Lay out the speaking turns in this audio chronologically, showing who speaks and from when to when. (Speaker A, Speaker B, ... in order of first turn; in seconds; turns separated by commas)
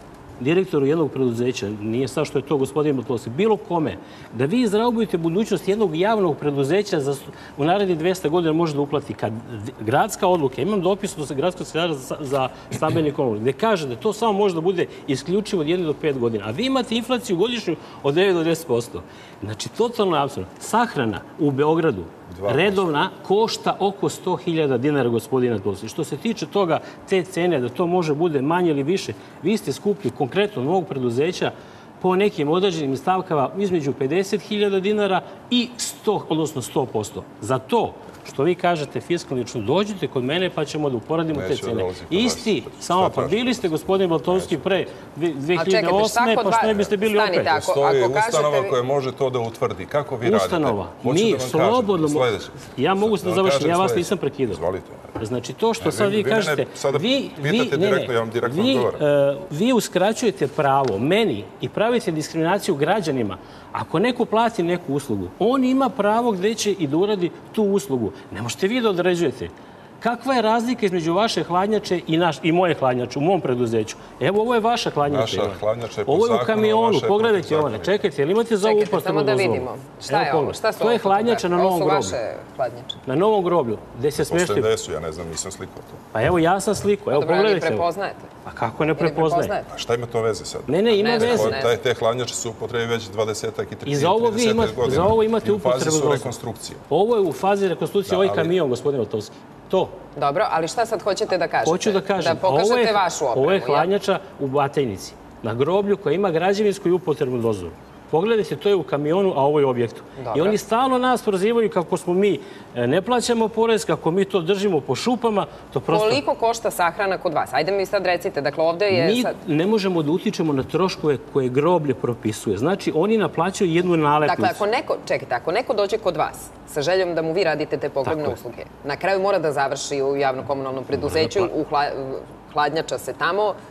Speaker A: 0.4-47.5, Speaker B: 22.3-22.8, Speaker B: 41.3-43.7, Speaker B: 44.3-44.8, Speaker C: 45.5-48.7, Speaker B: 47.5-55.1, Speaker A: 50.2-54.6, Speaker A: 55.2-82.2, Speaker B: 55.8-59.0, Speaker B: 75.0-78.1, Speaker C: 78.6-83.0, Speaker A: 83.0-84.7, Speaker B: 84.1-86.0, Speaker A: 86.1-87.9, Speaker C: 87.1-88.3, Speaker A: 88.4-89.5, Speaker C: 89.0-89.7, Speaker B: 89.7-96.8, Speaker A: 90.7-91.6, Speaker C: 90.9-91.7, Speaker A: 93.8-96.3, Speaker A: 96.9-100.0, Speaker B: 98.0-98.5, Speaker C: 100.2-103.9, Speaker A: 101.6-116.2, Speaker C: 110.2-110.6, Speaker C: 115.9-119.3, Speaker A: 118.9-124.6, Speaker C: 124.2-133.6, Speaker A: 128.0-128.4, Speaker A: 130.9-131.5